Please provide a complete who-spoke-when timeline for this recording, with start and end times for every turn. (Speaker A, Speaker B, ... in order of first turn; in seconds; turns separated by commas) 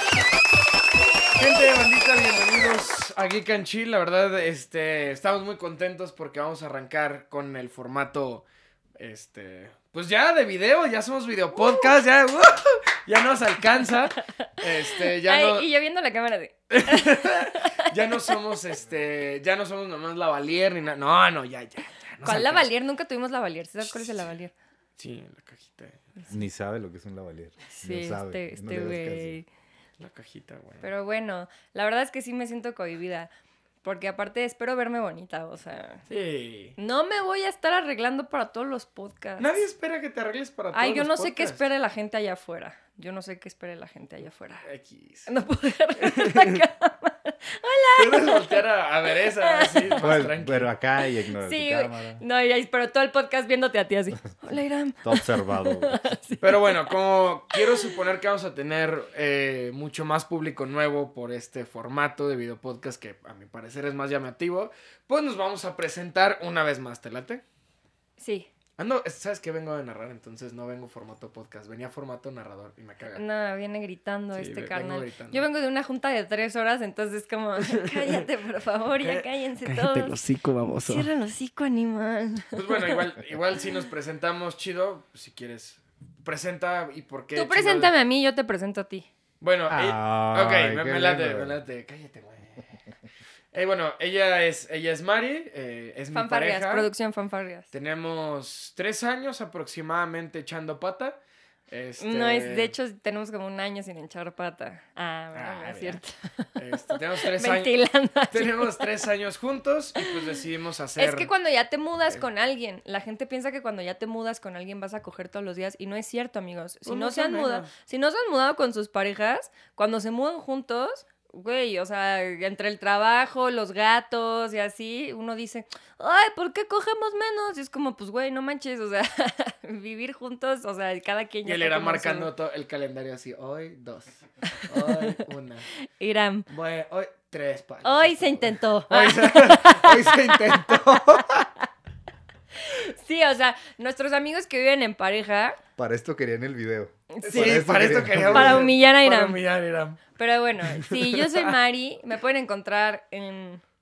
Speaker A: 1.4-8.4, Speaker A: 9.0-15.6, Speaker B: 14.3-18.4, Speaker A: 16.7-22.7, Speaker B: 22.2-24.5, Speaker A: 23.9-24.3, Speaker A: 25.0-26.0, Speaker C: 26.3-29.4, Speaker B: 27.7-29.5, Speaker A: 30.0-30.9, Speaker B: 30.8-33.3, Speaker B: 33.8-36.1, Speaker A: 36.1-36.8, Speaker B: 36.8-39.6, Speaker A: 39.4-41.6, Speaker B: 40.7-44.6, Speaker A: 44.6-45.3, Speaker B: 45.3-48.6, Speaker A: 46.0-46.6, Speaker A: 48.0-50.7, Speaker B: 49.2-49.9, Speaker C: 50.0-52.2, Speaker B: 51.4-57.0, Speaker C: 55.0-56.0, Speaker A: 56.4-67.4, Speaker B: 57.5-57.9, Speaker B: 68.2-68.5, Speaker A: 68.8-73.2, Speaker B: 73.1-80.2, Speaker A: 74.3-75.4, Speaker A: 77.6-78.3, Speaker A: 79.0-81.1, Speaker B: 80.8-83.0, Speaker A: 82.5-87.9, Speaker B: 87.3-89.1, Speaker A: 89.4-92.6, Speaker C: 89.7-91.5, Speaker A: 93.5-96.9, Speaker B: 96.1-97.7, Speaker A: 97.7-101.2, Speaker A: 101.7-102.7, Speaker B: 102.0-109.0, Speaker A: 105.3-106.0, Speaker A: 106.5-107.8, Speaker A: 108.3-111.3, Speaker B: 110.0-110.3, Speaker B: 111.0-132.3, Speaker A: 116.8-117.7, Speaker A: 131.4-135.7, Speaker B: 134.9-135.2, Speaker B: 135.8-136.5, Speaker A: 136.5-141.5, Speaker B: 137.8-141.7, Speaker B: 142.6-145.6, Speaker C: 145.8-148.7, Speaker B: 147.1-147.7, Speaker A: 147.2-150.0, Speaker B: 148.2-149.4, Speaker B: 150.2-153.6, Speaker A: 150.7-151.5